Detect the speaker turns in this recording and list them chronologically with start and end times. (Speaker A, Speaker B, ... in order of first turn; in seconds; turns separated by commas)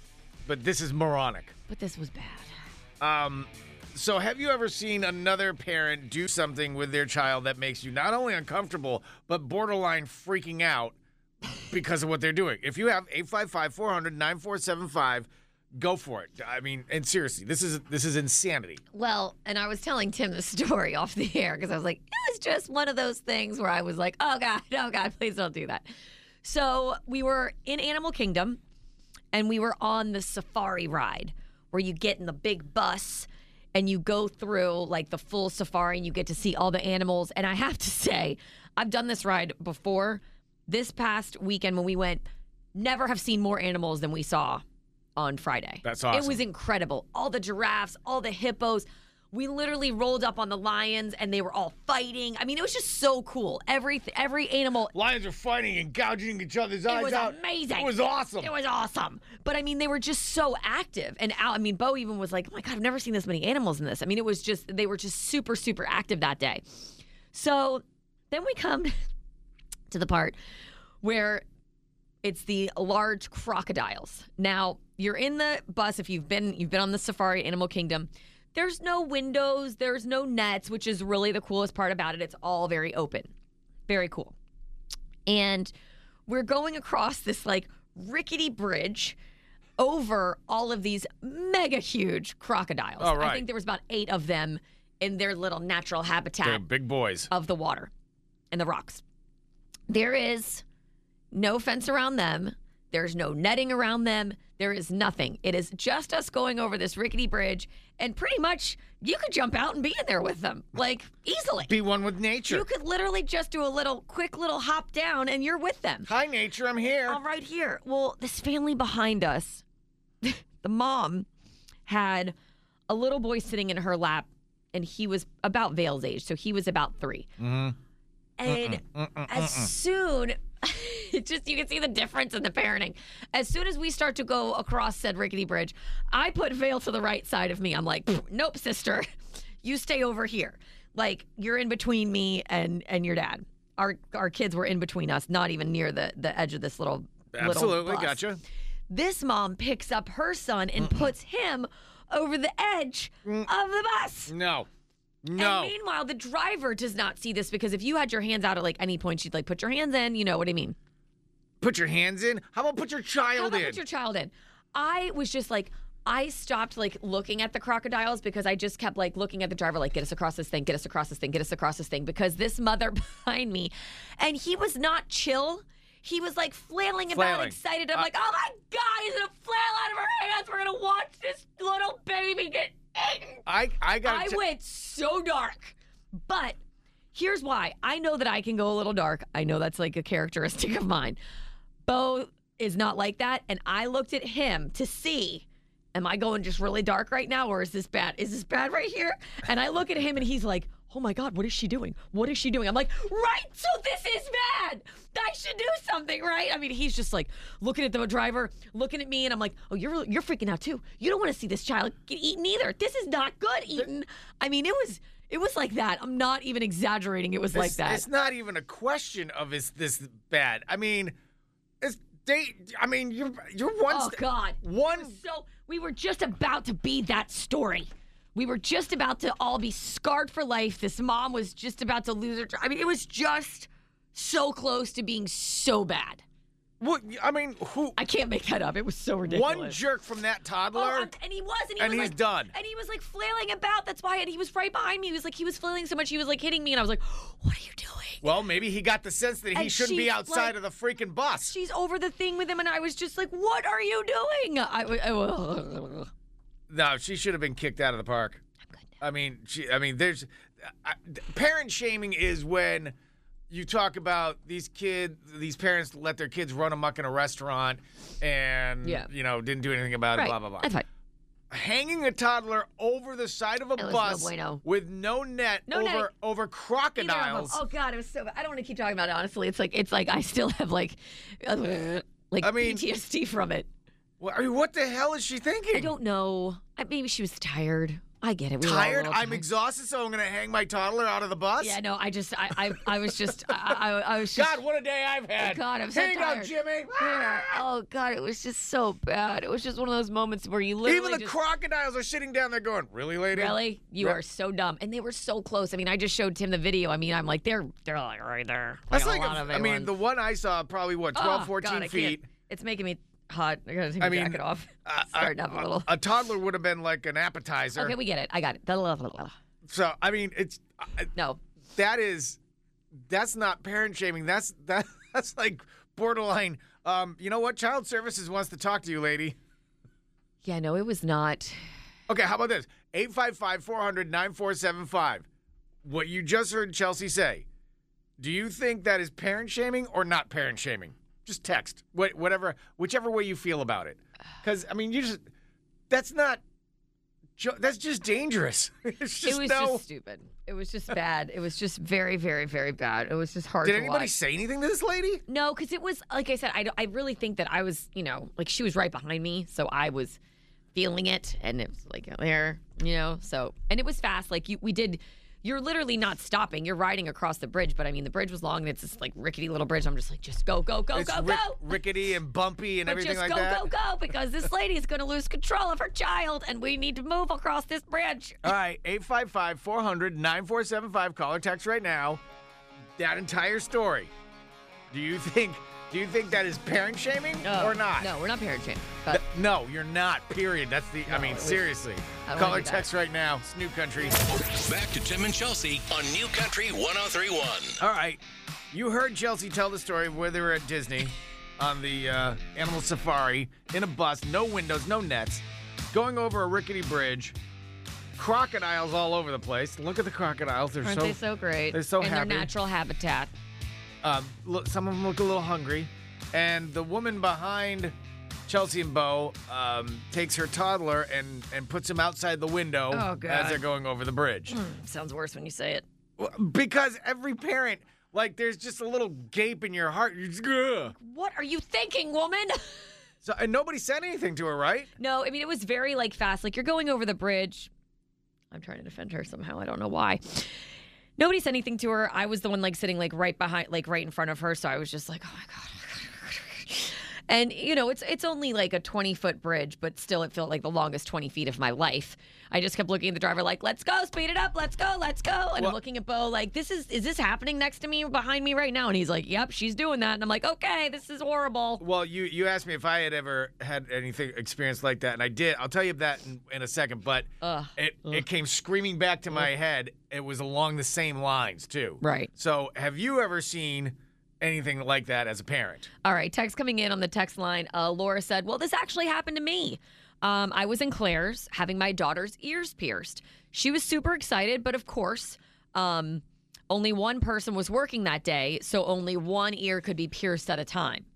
Speaker A: 0.5-1.6, Speaker B: 1.7-2.5, Speaker A: 3.0-11.0, Speaker A: 11.7-18.8, Speaker B: 18.9-25.9, Speaker B: 26.4-28.6, Speaker B: 29.3-44.6, Speaker B: 45.2-54.9, Speaker A: 45.8-46.4, Speaker A: 54.9-58.5, Speaker B: 56.9-68.9, Speaker B: 69.9-70.4, Speaker B: 71.0-71.5, Speaker B: 72.2-83.3, Speaker B: 83.9-84.4, Speaker B: 85.3-85.7, Speaker B: 86.3-89.2, Speaker B: 89.8-96.6, Speaker A: 93.0-93.5, Speaker A: 96.4-97.3, Speaker B: 97.3-97.9, Speaker B: 98.5-99.0, Speaker B: 99.9-100.6, Speaker B: 101.3-111.7, Speaker A: 111.7-112.7, Speaker B: 112.5-116.1, Speaker A: 116.0-117.2, Speaker B: 117.1-119.6, Speaker B: 120.2-121.3, Speaker B: 121.9-122.3, Speaker B: 122.9-127.3, Speaker A: 127.4-127.8, Speaker B: 128.4-139.1, Speaker A: 128.5-129.7, Speaker B: 139.6-148.2, Speaker A: 147.3-148.4, Speaker B: 148.9-154.3, Speaker A: 150.8-151.1, Speaker A: 153.2-153.5, Speaker A: 154.3-154.7, Speaker A: 155.2-155.7, Speaker B: 155.4-160.8, Speaker A: 161.6-163.8, Speaker B: 163.3-183.4, Speaker A: 177.1-178.1, Speaker A: 183.5-184.4, Speaker B: 184.0-186.6, Speaker B: 187.1-191.2, Speaker B: 191.9-218.1, Speaker A: 217.5-221.2, Speaker A: 221.8-225.2, Speaker B: 223.9-236.2, Speaker A: 236.8-238.0, Speaker B: 238.0-239.8, Speaker A: 239.3-241.1, Speaker B: 240.8-248.2, Speaker A: 241.8-242.5, Speaker A: 248.2-251.6, Speaker B: 249.5-250.6, Speaker B: 251.4-256.1, Speaker A: 256.7-258.4, Speaker A: 259.0-262.9, Speaker A: 263.5-270.7, Speaker B: 270.1-270.9, Speaker A: 271.5-277.6, Speaker B: 273.8-274.6, Speaker B: 275.7-276.1, Speaker B: 277.0-283.7, Speaker A: 282.4-282.8, Speaker A: 284.2-285.9, Speaker B: 285.7-289.4, Speaker A: 288.6-291.8, Speaker B: 291.6-294.6, Speaker A: 294.4-297.6, Speaker B: 295.4-301.4, Speaker A: 300.9-304.2, Speaker B: 303.3-309.9, Speaker A: 308.9-312.3, Speaker B: 311.1-315.9, Speaker A: 314.0-318.0, Speaker B: 317.8-319.4, Speaker A: 319.7-321.1, Speaker B: 321.1-321.4, Speaker A: 321.8-322.4, Speaker A: 323.0-329.4, Speaker B: 330.4-331.6, Speaker A: 332.1-335.3, Speaker A: 335.8-337.5, Speaker A: 338.2-345.3, Speaker A: 345.9-346.4, Speaker A: 347.4-349.8, Speaker B: 349.2-354.1, Speaker A: 353.6-355.2, Speaker B: 355.3-360.2, Speaker B: 360.7-371.8, Speaker A: 370.9-373.7, Speaker B: 372.9-378.5, Speaker A: 378.4-382.2, Speaker A: 383.0-384.1, Speaker A: 384.9-388.1, Speaker B: 387.4-389.2, Speaker A: 389.1-394.2, Speaker B: 391.1-391.7, Speaker B: 392.2-392.9, Speaker C: 394.4-397.8, Speaker A: 397.8-407.4, Speaker A: 408.2-412.5, Speaker B: 410.8-413.3, Speaker A: 414.0-417.9, Speaker A: 418.5-424.6, Speaker B: 422.9-423.6, Speaker B: 424.5-425.9, Speaker A: 426.2-430.9, Speaker B: 430.9-432.9, Speaker A: 433.2-434.9, Speaker B: 435.0-437.7, Speaker B: 438.5-440.6, Speaker B: 441.2-461.8, Speaker A: 461.8-475.9, Speaker B: 467.4-468.2, Speaker B: 472.0-472.3, Speaker B: 476.0-491.1